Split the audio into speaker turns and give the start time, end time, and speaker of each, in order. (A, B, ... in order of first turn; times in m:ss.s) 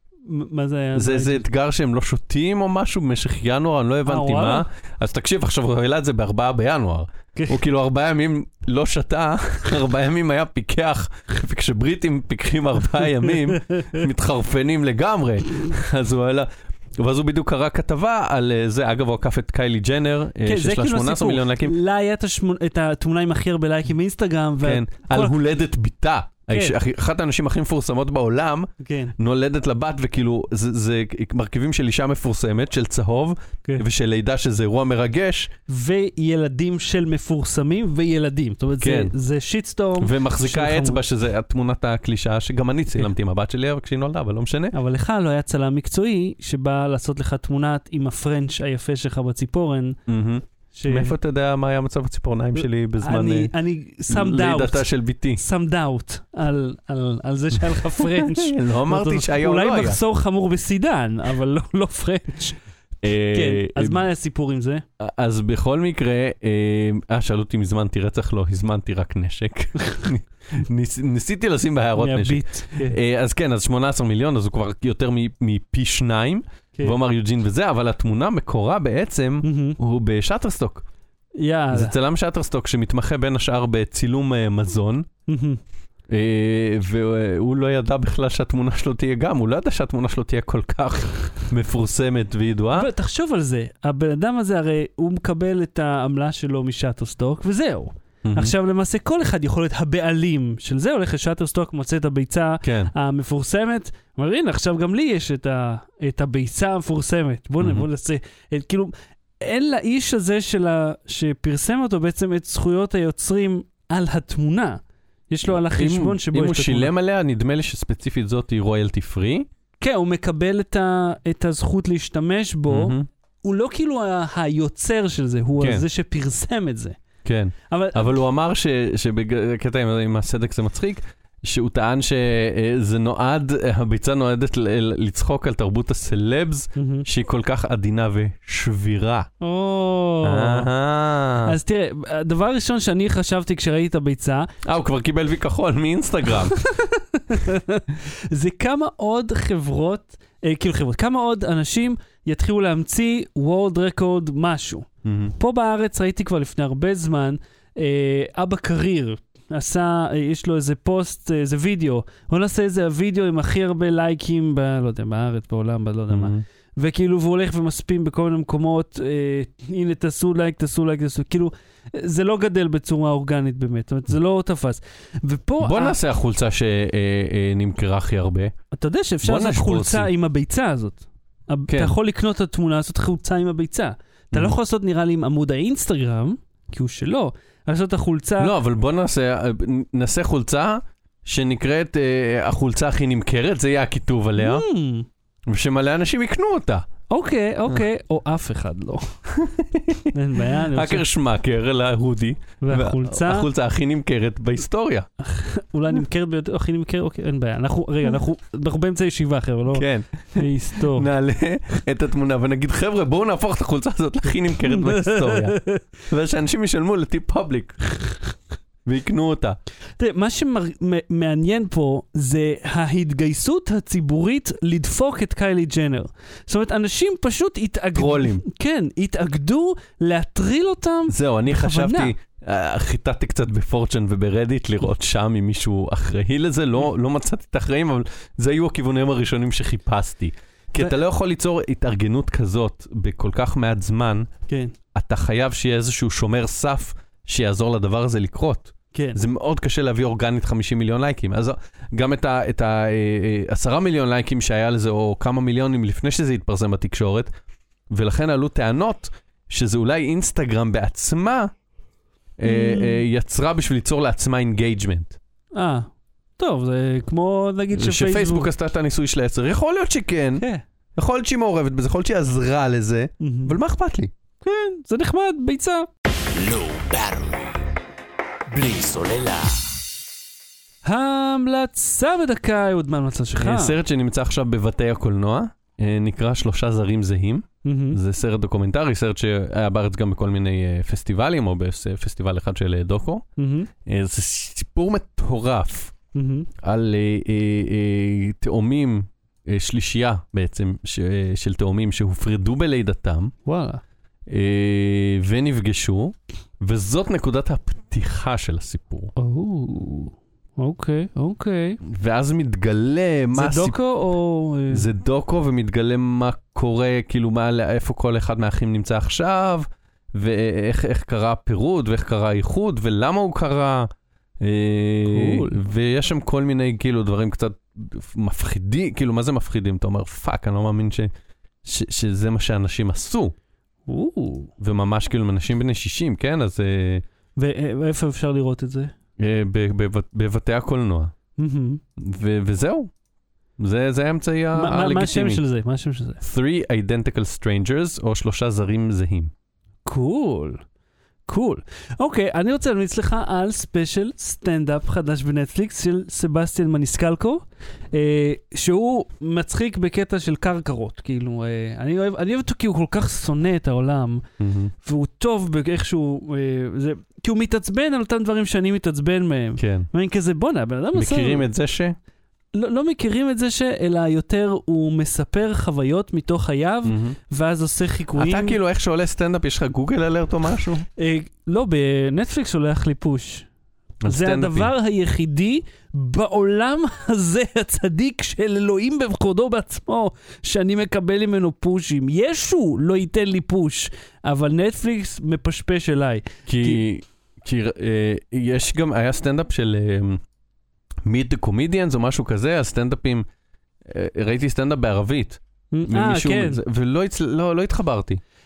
0:00.3-0:01.4 A
0:00.9-0:21.7 B
0:04.0-0:04.6 A
0:13.5-0:14.0 A
0:20.4-0:25.3 A
0:24.6-0:35.5 B
0:26.5-0:26.8 A
0:28.8-0:29.1 A
0:35.7-0:41.0 A
0:38.8-0:39.1 B
0:40.0-0:44.7 B
0:44.7-0:50.0 A
0:50.1-0:53.5 B
0:50.7-0:51.1 A
0:53.0-1:02.6 A
0:54.1-0:55.4 B
0:57.7-1:00.0 B
1:03.0-1:04.0 B
1:03.3-1:04.8 A
1:05.0-1:20.8 B
1:12.0-1:13.0 A
1:19.4-1:19.8 A
1:21.4-1:21.9 A
1:21.7-1:25.1 B
1:25.3-1:25.6 A
1:26.1-1:32.9 B
1:32.7-1:56.9 A
1:38.2-1:38.5 B
1:42.6-1:42.9 B
1:47.6-1:47.8 B
1:55.5-1:59.5 B
1:59.8-2:07.0 A
2:02.7-2:03.0 B
2:05.6-2:05.8 B
2:07.2-2:19.3 B
2:07.7-2:08.2 A
2:16.8-2:17.0 A
2:19.4-2:20.7 A
2:20.2-2:21.6 B
2:21.4-2:24.5 A
2:24.6-2:26.6 B
2:26.6-2:56.0 A
2:35.0-2:35.3 B
2:46.1-2:46.4 B
2:55.6-2:58.5 B
2:58.7-3:08.5 A
2:59.2-3:00.1 B
3:01.7-3:01.9 B
3:08.4-3:14.6 B
3:14.4-3:15.1 A
3:15.5-3:16.8 B
3:17.1-3:19.1 A
3:19.3-3:25.1 B
3:20.1-3:21.0 A
3:22.6-3:23.5 A
3:25.2-3:31.1 A
3:29.7-3:38.1 B
3:34.6-3:35.8 A
3:38.8-3:39.6 B
3:40.0-3:52.1 A
3:47.9-3:48.4 B
3:51.1-4:04.3 B
4:04.5-4:04.7 A
4:04.9-4:17.3 B
4:08.9-4:09.2 A
4:17.9-4:21.5 B
4:22.4-4:25.2 B
4:22.4-4:23.0 A
4:25.5-4:28.5 A
4:27.7-4:30.4 B
4:30.4-4:30.6 A
4:31.0-4:34.1 B
4:33.2-4:33.6 A
4:34.4-4:35.9 A
4:36.1-4:37.6 C
4:38.5-4:39.7 C
4:40.8-4:43.8 A
4:43.4-4:53.2 B
4:47.6-4:48.0 A
4:53.4-4:53.7 A
4:53.8-4:55.9 B
4:56.1-4:56.5 A
4:56.6-5:03.3 B
5:03.4-5:03.8 A
5:04.3-5:09.1 B
5:09.2-5:11.8 A
5:11.8-5:13.8 B
5:13.3-5:14.8 A
5:14.7-5:23.9 B
5:24.4-5:31.1 B
5:25.0-5:25.6 A
5:31.6-5:33.3 B
5:33.9-5:34.5 A
5:34.6-5:37.0 B
5:37.4-5:38.9 A
5:39.2-5:41.1 B
5:41.4-5:41.8 A
5:42.0-5:42.9 B
5:43.6-5:45.4 B
5:44.5-5:46.2 A
5:46.2-5:49.3 B
5:49.8-5:50.6 A
5:51.3-6:04.2 A
6:04.4-6:04.7 B
6:04.8-6:11.5 A
6:09.6-6:09.9 B
6:10.9-6:12.0 B
6:12.5-6:18.6 A
6:16.8-6:17.2 B
6:18.2-6:20.8 B
6:21.0-6:23.5 A
6:24.0-6:24.7 B
6:24.0-6:36.8 A
6:36.5-6:40.2 B
6:41.0-6:43.2 B
6:43.8-6:48.2 B
6:45.7-6:46.6 A